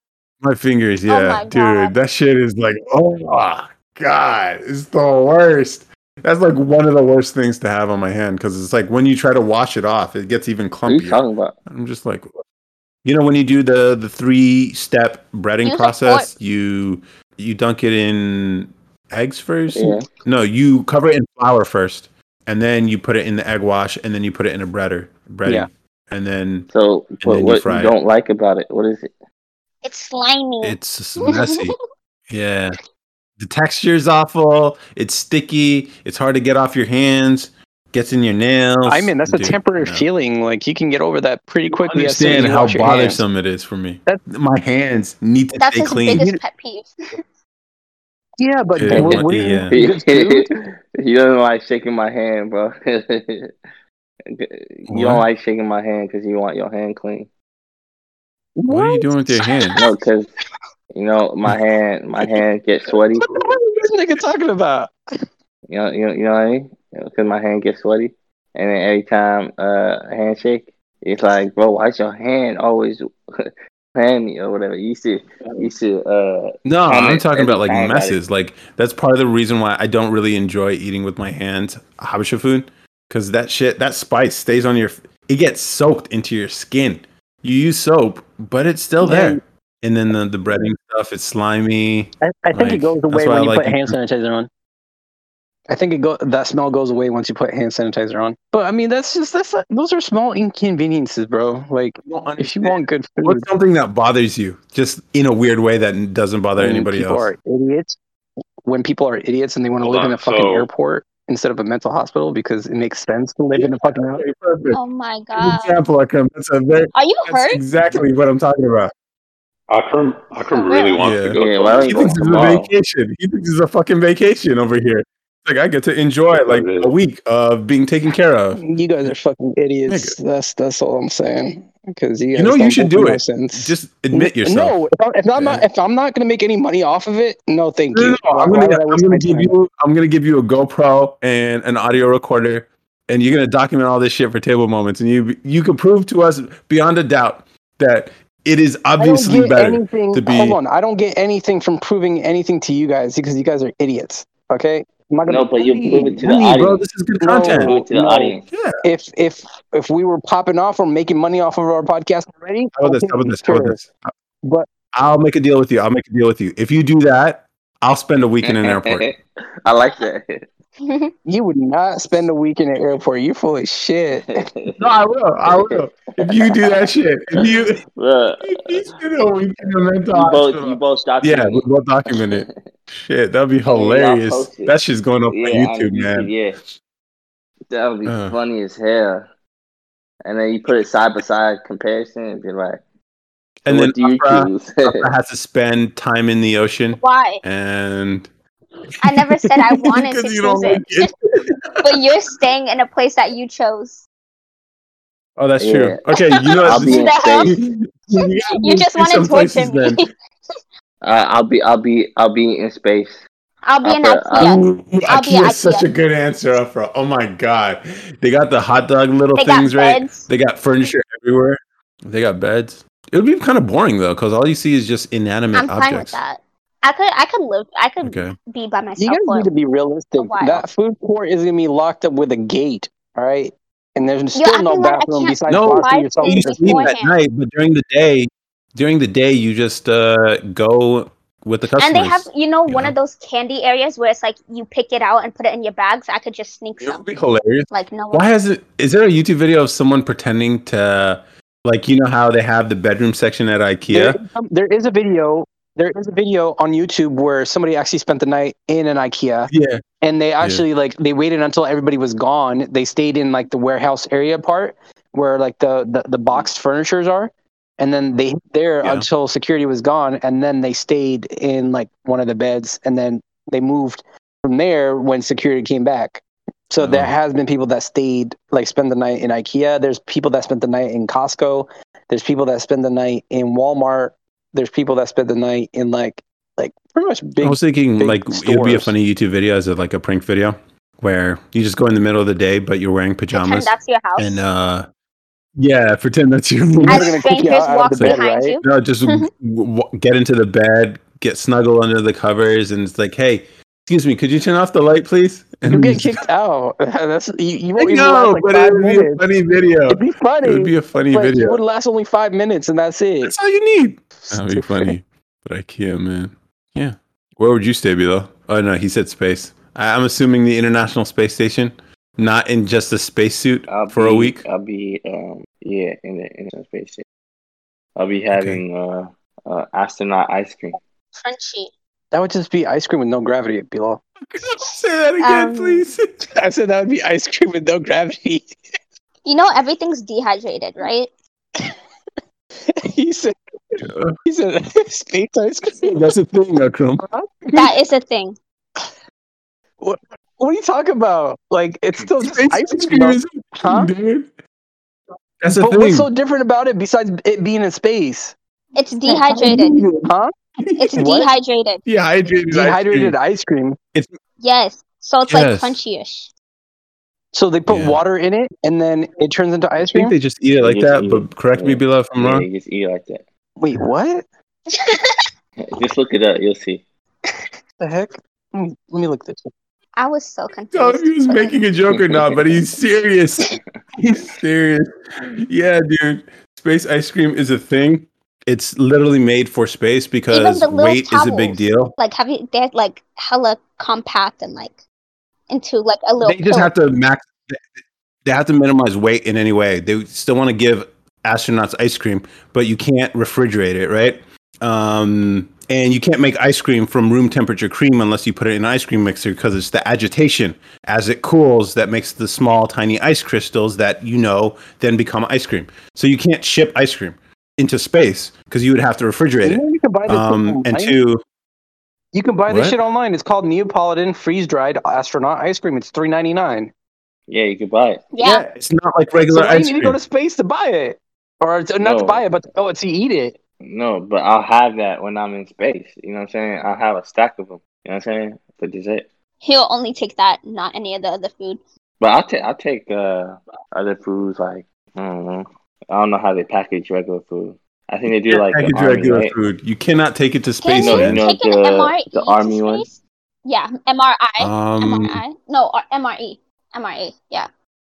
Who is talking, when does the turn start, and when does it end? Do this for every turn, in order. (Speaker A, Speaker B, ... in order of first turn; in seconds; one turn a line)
Speaker A: 0.4-12.3
Speaker B: 1.1-1.9
Speaker C: 10.9-11.6
Speaker A: 13.1-26.7
Speaker B: 15.6-16.3
Speaker C: 19.7-20.1
Speaker C: 26.7-29.1
Speaker A: 27.2-27.9
Speaker B: 29.8-31.7
Speaker A: 30.6-31.8
Speaker A: 32.3-32.8
Speaker A: 33.4-40.1
Speaker D: 38.9-43.2
Speaker A: 41.7-46.3
Speaker B: 45.6-47.2
Speaker D: 46.1-46.4
Speaker D: 48.4-50.5
Speaker A: 48.8-49.8
Speaker C: 48.9-53.5
Speaker C: 54.3-57.3
Speaker A: 54.9-55.3
Speaker D: 58.6-59.8
Speaker A: 58.7-59.8
Speaker C: 59.8-60.3
Speaker C: 60.9-63.3
Speaker D: 63.2-64.9
Speaker C: 65.7-78.2
Speaker A: 76.7-94.0
Speaker D: 89.0-89.4
Speaker D: 92.2-94.5
Speaker D: 95.7-103.5
Speaker A: 102.0-107.3
Speaker D: 106.6-108.0
Speaker D: 108.7-114.2
Speaker E: 109.8-110.7
Speaker A: 113.5-114.8
Speaker B: 114.7-115.8
Speaker A: 115.4-118.9
Speaker B: 117.0-117.6
Speaker E: 119.7-122.2
Speaker B: 120.5-121.0
Speaker A: 121.0-129.1
Speaker C: 121.3-122.7
Speaker E: 126.3-126.9
Speaker D: 128.6-139.5
Speaker A: 129.9-130.2
Speaker A: 132.3-134.8
Speaker A: 135.3-135.6
Speaker A: 137.9-150.6
Speaker D: 149.0-156.2
Speaker C: 155.3-156.8
Speaker A: 156.2-157.8
Speaker D: 157.2-163.8
Speaker C: 157.5-158.4
Speaker A: 158.5-158.8
Speaker A: 162.8-164.1
Speaker D: 164.4-164.7
Speaker A: 164.9-169.1
Speaker C: 168.4-170.5
Speaker B: 170.8-171.1
Speaker D: 171.3-174.5
Speaker C: 174.1-174.9
Speaker A: 174.8-177.8
Speaker C: 175.5-178.9
Speaker A: 178.4-186.3
Speaker C: 180.1-182.5
Speaker C: 183.7-184.7
Speaker C: 185.3-186.6
Speaker C: 187.7-189.3
Speaker A: 188.1-188.4
Speaker C: 190.2-192.8
Speaker A: 193.7-198.3
Speaker C: 193.7-195.1
Speaker B: 197.0-197.4
Speaker A: 198.9-202.0
Speaker B: 199.0-201.1
Speaker B: 201.8-204.1
Speaker A: 205.4-210.0
Speaker C: 205.6-206.0
Speaker B: 206.3-207.6
Speaker C: 206.7-207.6
Speaker B: 208.1-210.0
Speaker C: 211.0-213.2
Speaker B: 213.6-215.9
Speaker C: 213.8-214.5
Speaker A: 214.3-226.2
Speaker B: 219.4-220.3
Speaker B: 225.5-229.5
Speaker A: 228.0-228.4
Speaker D: 229.0-236.9
Speaker B: 230.2-230.7
Speaker B: 234.3-237.2
Speaker A: 235.5-242.9
Speaker B: 241.8-247.1
Speaker A: 246.8-254.2
Speaker B: 247.7-248.3
Speaker D: 253.9-259.5
Speaker A: 259.5-259.8
Speaker D: 260.0-288.9
Speaker A: 268.8-269.1
Speaker A: 276.8-277.1
Speaker A: 287.4-294.9
Speaker B: 293.3-294.4
Speaker A: 295.6-297.2
Speaker D: 296.8-298.6
Speaker B: 296.9-299.3
Speaker A: 297.9-306.2
Speaker D: 305.7-309.2
Speaker A: 307.8-311.6
Speaker D: 309.9-313.3
Speaker A: 313.2-324.4
Speaker D: 314.2-314.9
Speaker C: 323.7-327.1
Speaker C: 328.0-330.8
Speaker A: 328.3-328.6
Speaker B: 331.2-331.7
Speaker D: 332.1-334.0
Speaker A: 334.2-336.1
Speaker B: 335.2-335.9
Speaker D: 336.3-338.6
Speaker B: 339.2-341.1
Speaker D: 342.7-346.1
Speaker A: 343.8-344.2
Speaker A: 345.8-347.1
Speaker D: 347.0-347.6
Speaker B: 347.5-348.4
Speaker D: 349.8-353.9
Speaker A: 352.0-354.3
Speaker A: 355.4-356.1
Speaker D: 355.5-358.4
Speaker B: 358.8-359.8
Speaker D: 359.1-360.3
Speaker A: 359.6-360.1
Speaker A: 360.6-361.0
Speaker B: 360.8-361.8
Speaker D: 360.9-361.3
Speaker A: 361.9-363.2
Speaker D: 362.5-363.8
Speaker B: 364.4-366.3
Speaker A: 365.3-365.8
Speaker D: 367.3-370.1
Speaker A: 367.7-368.0
Speaker A: 369.8-372.5
Speaker C: 370.6-373.2
Speaker D: 373.6-374.2
Speaker B: 374.7-375.3
Speaker C: 375.6-376.8
Speaker D: 377.8-379.5
Speaker B: 380.0-381.6
Speaker A: 380.7-391.9
Speaker B: 390.3-394.8
Speaker B: 395.5-396.7
Speaker A: 396.2-397.6
Speaker A: 398.3-421.2
Speaker D: 419.4-421.0
Speaker D: 422.1-426.7
Speaker A: 422.5-422.8
Speaker C: 427.3-428.1
Speaker B: 428.1-428.5
Speaker A: 428.5-430.0
Speaker D: 429.3-433.4
Speaker C: 431.8-432.2
Speaker C: 433.6-439.1
Speaker B: 439.4-441.6
Speaker C: 442.0-449.4
Speaker A: 448.1-451.2
Speaker B: 450.6-457.5
Speaker C: 450.8-452.9
Speaker A: 454.4-455.2